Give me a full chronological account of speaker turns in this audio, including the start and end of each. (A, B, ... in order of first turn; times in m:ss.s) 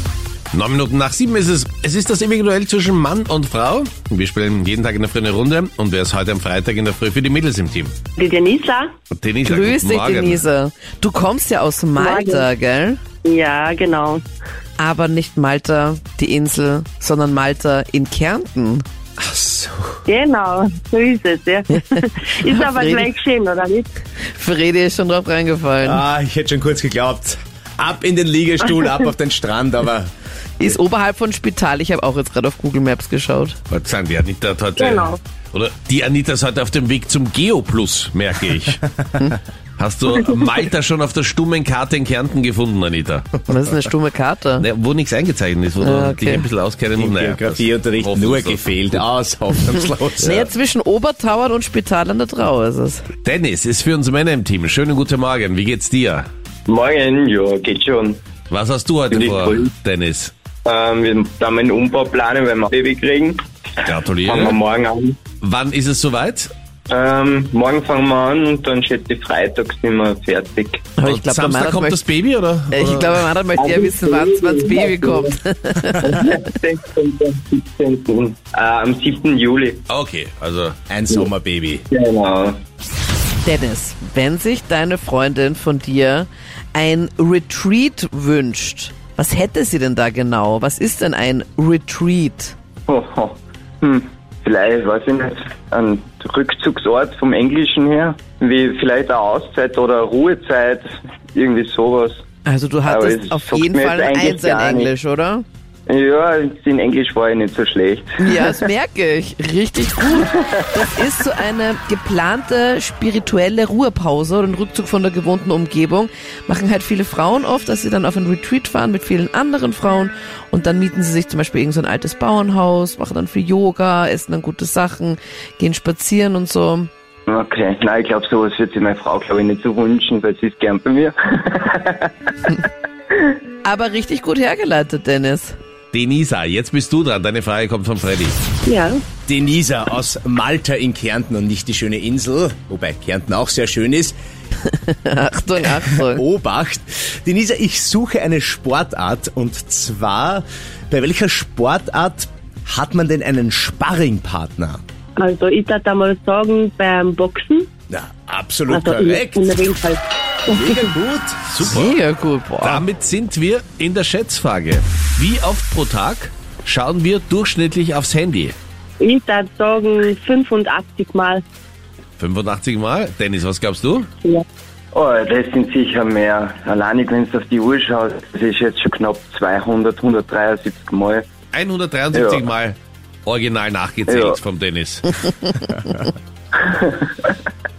0:00.5-0:07.9 A
0:08.2-0:08.9 B
0:09.1-0:10.4 A
0:09.4-0:13.0 C
0:12.0-0:12.5 B
0:13.2-0:14.2 B
0:14.8-0:18.8 C
0:19.2-0:20.0 D
0:20.1-0:23.9 B
0:22.5-0:23.1 C
0:24.4-0:26.0 C
0:25.8-0:30.1 D
0:30.6-0:33.6 C
0:33.7-0:38.8 A
0:34.8-0:35.2 B
0:39.8-0:43.3 A
0:43.5-0:44.7 C
0:44.6-0:49.0 A
0:45.8-0:46.5 C
0:47.0-0:50.5 D
0:50.2-0:53.1 C
0:50.2-0:50.5 A
0:53.2-0:56.3 A
0:56.7-0:58.2 E
0:58.5-1:00.3 A
0:59.1-0:59.7 E
1:00.7-1:05.2 E
1:03.8-1:04.6 A
1:05.4-1:06.5 A
1:06.9-1:10.9 E
1:11.0-1:12.0 C
1:11.0-1:13.1 A
1:12.7-1:16.2 C
1:13.6-1:15.3 E
1:16.0-1:19.8 E
1:19.9-1:20.8 A
1:20.9-1:21.9 D
1:21.9-1:22.6 E
1:23.4-1:32.6 C
1:32.9-1:42.2 E
1:42.4-1:45.4 C
1:42.9-1:44.9 E
1:45.9-1:48.6 E
1:48.2-2:06.9 C
2:07.3-2:12.1 E
2:13.6-2:15.6 C
2:15.9-2:18.4 A
2:18.7-2:19.0 B
2:19.3-2:24.2 D
2:24.7-2:26.2 C
2:25.9-2:34.8 D
2:35.2-2:37.7 B
2:37.9-2:39.6 D
2:38.7-2:40.9 B
2:40.5-2:41.4 D
2:41.5-2:42.0 A
2:41.6-2:42.8 C
2:42.6-2:48.6 A
2:49.0-2:51.4 B
2:52.2-2:54.1 A
2:54.9-3:01.2 E
3:01.5-3:05.1 A
3:02.1-3:02.4 E
3:04.1-3:04.4 E
3:06.6-3:07.3 E